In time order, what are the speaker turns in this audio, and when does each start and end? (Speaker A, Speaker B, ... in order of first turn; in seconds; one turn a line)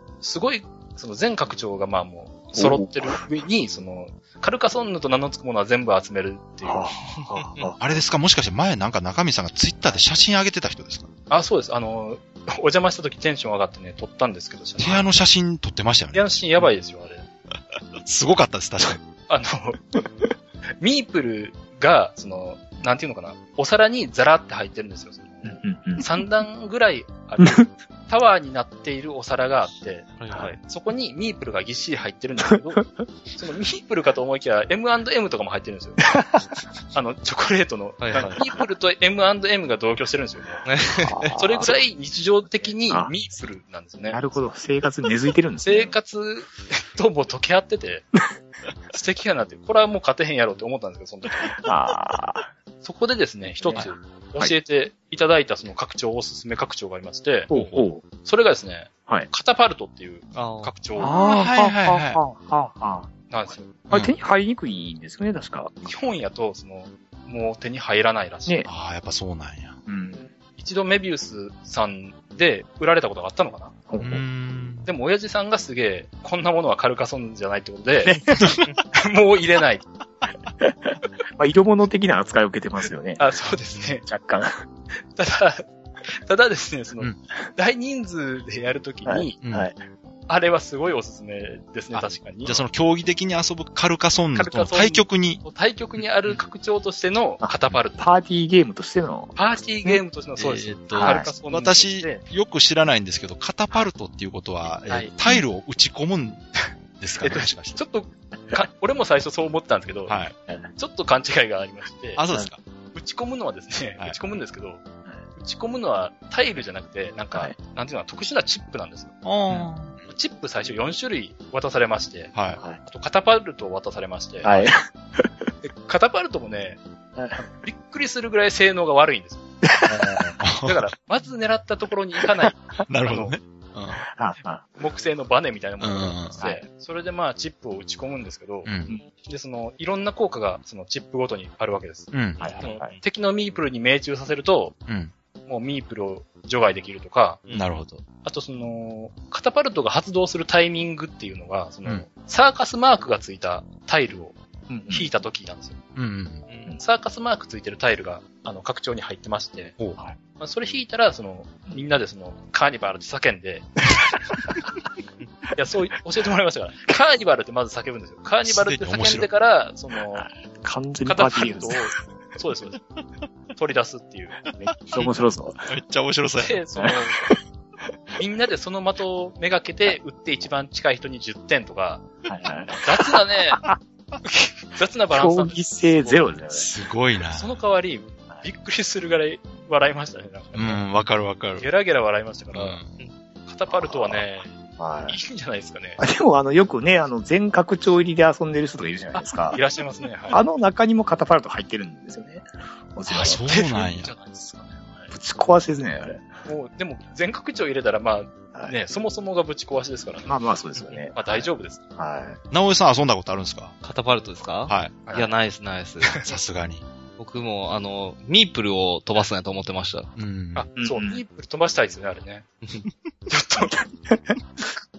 Speaker A: 0.2-6.9
Speaker B: 2.6-3.2
Speaker B: 6.6-7.8
Speaker C: 7.3-7.7
Speaker D: 7.8-11.1
Speaker A: 11.3-15.1
Speaker D: 14.8-16.3
Speaker A: 16.1-17.2
Speaker D: 18.0-19.0
Speaker A: 19.3-19.8
Speaker A: 20.8-36.0
Speaker B: 25.4-26.2
Speaker B: 27.4-27.7
Speaker C: 30.2-30.6
Speaker B: 30.3-30.6
Speaker B: 36.1-36.5
Speaker A: 36.9-40.6
Speaker C: 38.0-38.5
Speaker C: 40.7-41.3
Speaker B: 41.0-41.8
Speaker A: 41.4-44.2
Speaker B: 44.1-46.0
Speaker A: 45.6-48.1
Speaker A: 48.9-51.5
Speaker B: 51.6-52.5
Speaker A: 52.8-57.5
Speaker B: 53.6-54.5
Speaker B: 57.5-58.0
Speaker A: 58.0-61.1
Speaker C: 60.3-60.7
Speaker B: 61.0-66.0
Speaker D: 61.1-62.2
Speaker A: 63.3-63.7
Speaker D: 63.9-64.1
Speaker A: 65.8-68.7
Speaker D: 68.7-69.8
Speaker B: 69.9-70.3
Speaker A: 70.6-73.8
Speaker B: 73.9-74.2
Speaker D: 74.0-74.9
Speaker A: 74.9-78.1
Speaker B: 78.0-78.4
Speaker D: 78.3-78.7
Speaker A: 78.9-79.8
Speaker B: 80.6-83.3
Speaker A: 83.2-84.0
Speaker B: 84.0-84.6
Speaker A: 85.1-85.7
Speaker A: 86.2-89.4
Speaker B: 89.0-89.8
Speaker D: 89.4-89.7
Speaker A: 90.3-92.6
Speaker D: 91.9-95.4
Speaker A: 94.3-98.1
Speaker D: 96.0-96.4
Speaker B: 97.4-100.0
Speaker A: 99.4-102.2
Speaker D: 100.4-106.5
Speaker B: 100.9-101.3
Speaker A: 104.9-105.1
Speaker D: 107.0-107.8
Speaker A: 107.2-110.2
Speaker D: 110.1-110.3
Speaker A: 110.8-112.2
Speaker D: 112.2-112.6
Speaker A: 112.9-114.8
Speaker A: 115.4-119.1
Speaker D: 119.2-119.9
Speaker A: 120.1-122.3
Speaker D: 122.3-122.6
Speaker A: 122.8-124.6
Speaker B: 124.4-125.3
Speaker A: 125.6-126.8
Speaker B: 127.2-127.5
Speaker A: 127.6-129.4
Speaker B: 129.6-130.4
Speaker D: 129.9-130.8
Speaker A: 130.6-133.4
Speaker B: 132.2-132.5
Speaker D: 132.9-134.0
Speaker B: 134.0-134.6
Speaker A: 134.8-138.7
Speaker D: 135.8-136.4
Speaker B: 136.3-136.6
Speaker D: 138.6-139.0
Speaker A: 139.2-144.8
Speaker D: 142.1-142.6
Speaker B: 142.4-142.9
Speaker D: 144.9-145.1
Speaker A: 145.5-147.4
Speaker D: 147.5-148.0
Speaker A: 148.2-154.4
Speaker B: 154.7-155.1
Speaker A: 154.9-155.8
Speaker D: 156.0-156.4
Speaker C: 156.5-156.8
Speaker A: 156.8-159.8
Speaker A: 160.4-163.8
Speaker A: 165.6-170.3
Speaker D: 168.4-169.3
Speaker B: 170.2-172.0
Speaker A: 171.1-172.8
Speaker A: 173.5-174.4
Speaker B: 174.6-175.7
Speaker D: 175.7-176.6
Speaker A: 176.4-177.3
Speaker B: 176.8-177.3
Speaker A: 178.2-182.1
Speaker B: 182.3-183.8
Speaker A: 182.8-183.6
Speaker A: 184.2-186.2
Speaker B: 185.1-186.7
Speaker D: 186.5-187.5
Speaker A: 187.3-190.8
Speaker D: 190.6-191.7
Speaker A: 191.6-192.8
Speaker D: 192.5-193.0
Speaker A: 193.4-194.5
Speaker B: 193.7-194.2
Speaker B: 194.8-195.2
Speaker A: 195.1-196.0
Speaker B: 196.0-199.6
Speaker A: 199.1-200.4
Speaker B: 200.3-203.4
Speaker D: 203.1-204.1
Speaker A: 203.4-205.1
Speaker B: 205.1-206.3
Speaker A: 206.4-210.4
Speaker B: 210.3-212.4
Speaker A: 211.1-211.8
Speaker D: 212.5-213.7
Speaker C: 213.8-216.2
Speaker D: 214.7-215.0
Speaker D: 216.2-216.8
Speaker C: 217.2-220.1
Speaker D: 220.2-220.7
Speaker A: 220.6-222.5
Speaker B: 220.8-221.2
Speaker A: 223.3-223.8
Speaker B: 224.1-224.4